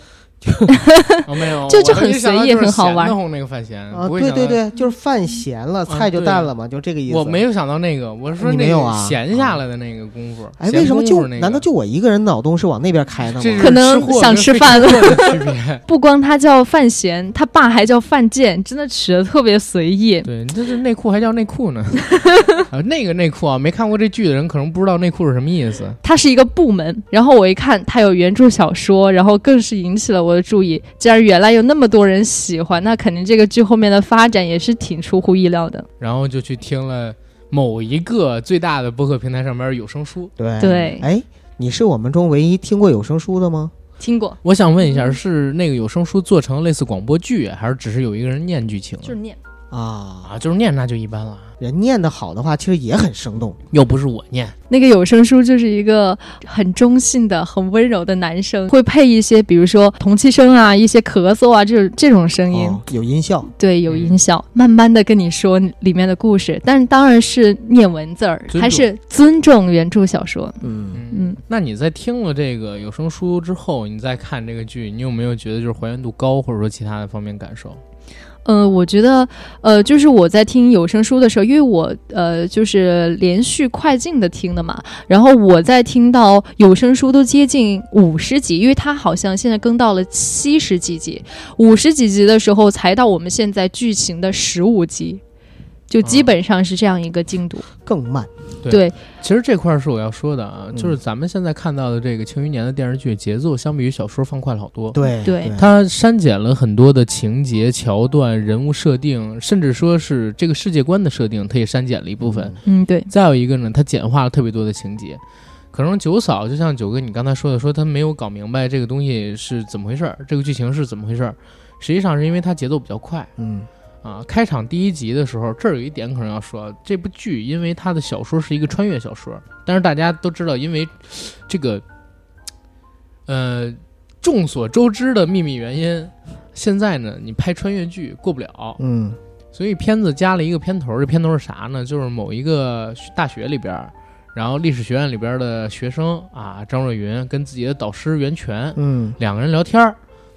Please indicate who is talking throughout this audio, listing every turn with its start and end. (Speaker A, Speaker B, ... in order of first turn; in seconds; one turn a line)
Speaker A: 0.4-0.8
Speaker B: 0.7-3.1
Speaker C: 1.2-4.6
Speaker A: 3.9-7.4
Speaker C: 5.9-6.5
Speaker C: 7.1-11.6
Speaker A: 8.3-9.6
Speaker A: 10.6-13.8
Speaker C: 13.4-15.8
Speaker B: 13.6-20.3
Speaker C: 20.2-26.0
Speaker B: 22.1-22.6
Speaker B: 26.0-35.9
Speaker C: 36.0-40.3
Speaker A: 40.4-43.7
Speaker B: 40.6-41.1
Speaker B: 44.0-44.4
Speaker C: 44.4-49.1
Speaker B: 49.0-49.4
Speaker A: 49.7-50.3
Speaker C: 50.2-51.5
Speaker A: 51.6-53.6
Speaker C: 53.7-54.5
Speaker B: 54.7-62.8
Speaker A: 62.5-63.5
Speaker B: 63.6-71.4
Speaker C: 63.9-64.2
Speaker C: 68.5-68.9
Speaker A: 70.6-71.0
Speaker C: 70.9-77.8
Speaker B: 78.4-95.2
Speaker B: 95.9-97.7
Speaker C: 96.0-96.3
Speaker A: 97.8-98.3
Speaker C: 98.6-105.0
Speaker B: 98.7-98.9
Speaker A: 104.9-105.7
Speaker B: 105.1-105.5
Speaker C: 105.5-112.5
Speaker A: 112.2-112.6
Speaker B: 112.6-113.1
Speaker C: 113.1-115.2
Speaker C: 115.7-123.3
Speaker A: 123.4-123.7
Speaker C: 124.0-131.8
Speaker C: 133.3-138.8
Speaker A: 138.8-139.2
Speaker C: 139.5-150.0
Speaker A: 148.8-149.2